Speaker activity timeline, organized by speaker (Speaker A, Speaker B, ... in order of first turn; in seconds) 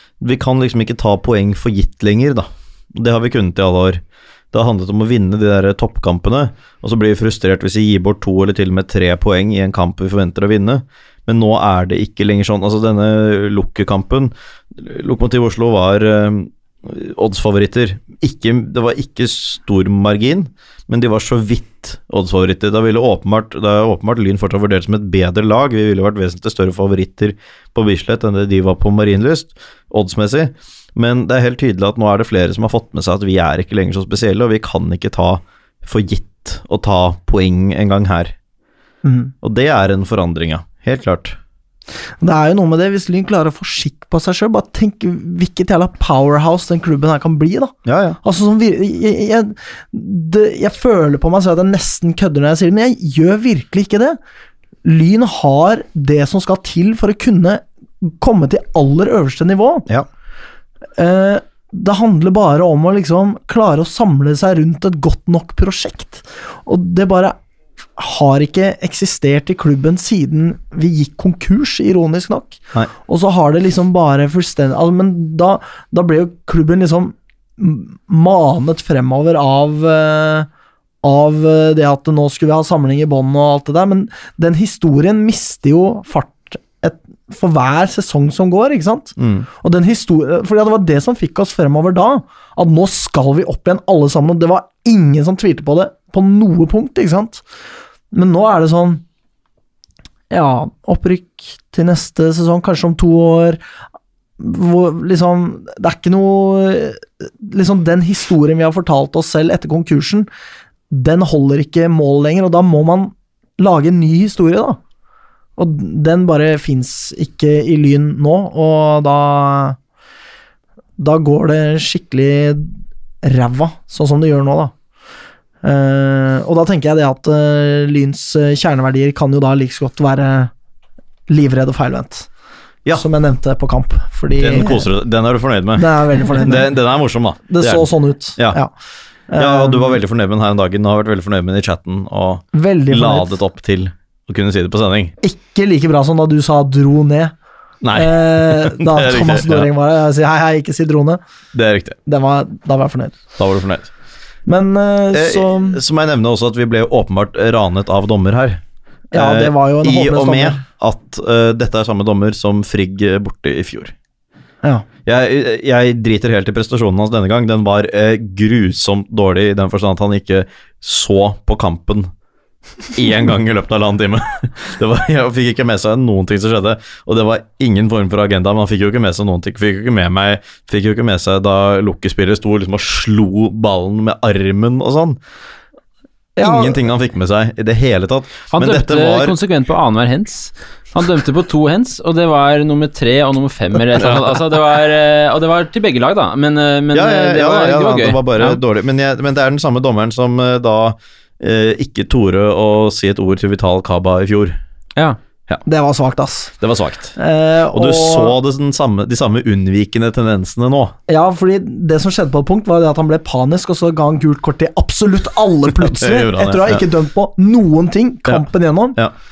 Speaker A: 0.2-38.3, 39.4-41.4, 47.9-48.2, 89.2-89.5, 134.4-138.6, 139.4-145.1, 147.8-149.7, 151.5-152.0, 153.4-153.9, 155.1-158.6, 159.1-163.9, 165.1-172.1, 172.9-185.2, 186.4-189.3, 196.9-204.6, 206.6-207.2, 207.7-210.9, 215.7-216.8, 218.2-219.1
Speaker B: 39.0-39.3, 42.2-54.2, 54.8-59.9, 61.0-67.3, 68.0-80.5, 81.0-97.4, 98.1-99.0, 100.3-103.6, 104.4-110.3, 110.9-114.8, 115.6-119.8, 121.0-124.7, 125.6-130.5, 131.3-132.3, 132.9-134.9, 135.8-136.7, 137.5-138.7, 139.3-140.0, 142.5-143.4, 145.2-147.3, 147.9-151.2, 152.1-153.2, 154.4-155.8, 159.1-160.6, 186.4-186.8, 205.7-206.5, 207.2-208.3, 211.1-219.0
Speaker C: 188.5-198.6